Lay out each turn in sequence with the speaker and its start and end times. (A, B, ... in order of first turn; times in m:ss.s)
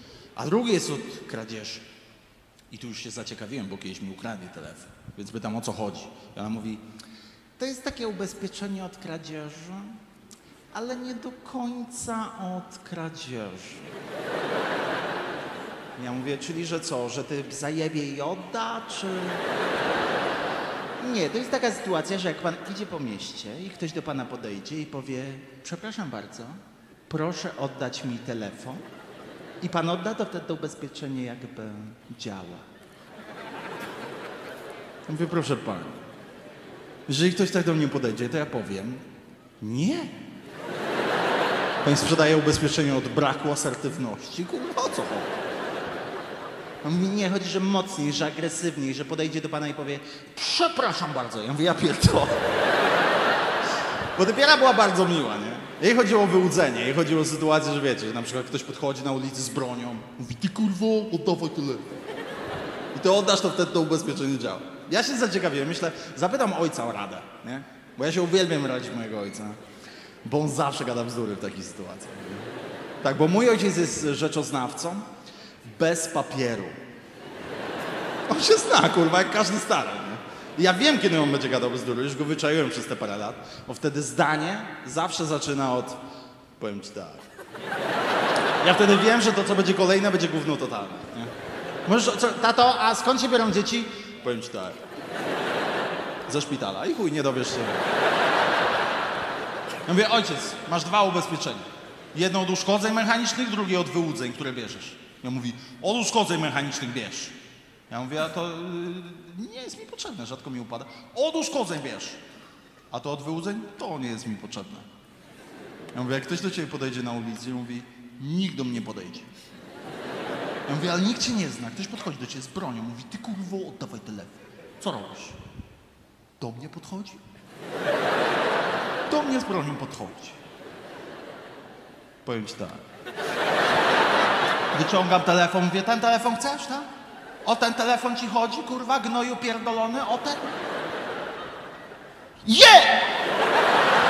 0:00.4-0:01.9 A
0:02.7-0:06.8 A
0:07.6-0:10.0 A
0:10.7-0:13.9 A
0:16.0-0:19.5 A
0:21.0-0:28.8 A
0:29.6-0:32.7 A
0:35.1-0:36.0 A
0:37.1-0:39.0 A
0:39.6-0:40.2 A
0:41.8-0:45.4 A
0:46.8-0:52.4 A
0:54.1-1:01.9 A
1:02.9-1:09.6 A
1:10.2-1:12.5 A
1:13.0-1:15.1 A
1:15.6-1:16.8 A
1:18.3-1:26.0 A
1:26.6-1:27.3 A
1:28.6-1:31.3 A
1:31.8-1:34.8 A
1:36.3-1:37.8 A
1:39.9-1:47.4 A
1:47.9-1:52.2 A
1:52.9-1:54.9 A
1:55.9-1:59.3 A
2:00.7-2:05.4 A
2:06.4-2:07.2 A
2:09.1-2:10.4 A
2:12.2-2:12.8 A
2:14.7-2:16.9 A
2:17.4-2:20.5 A
2:22.4-2:23.1 A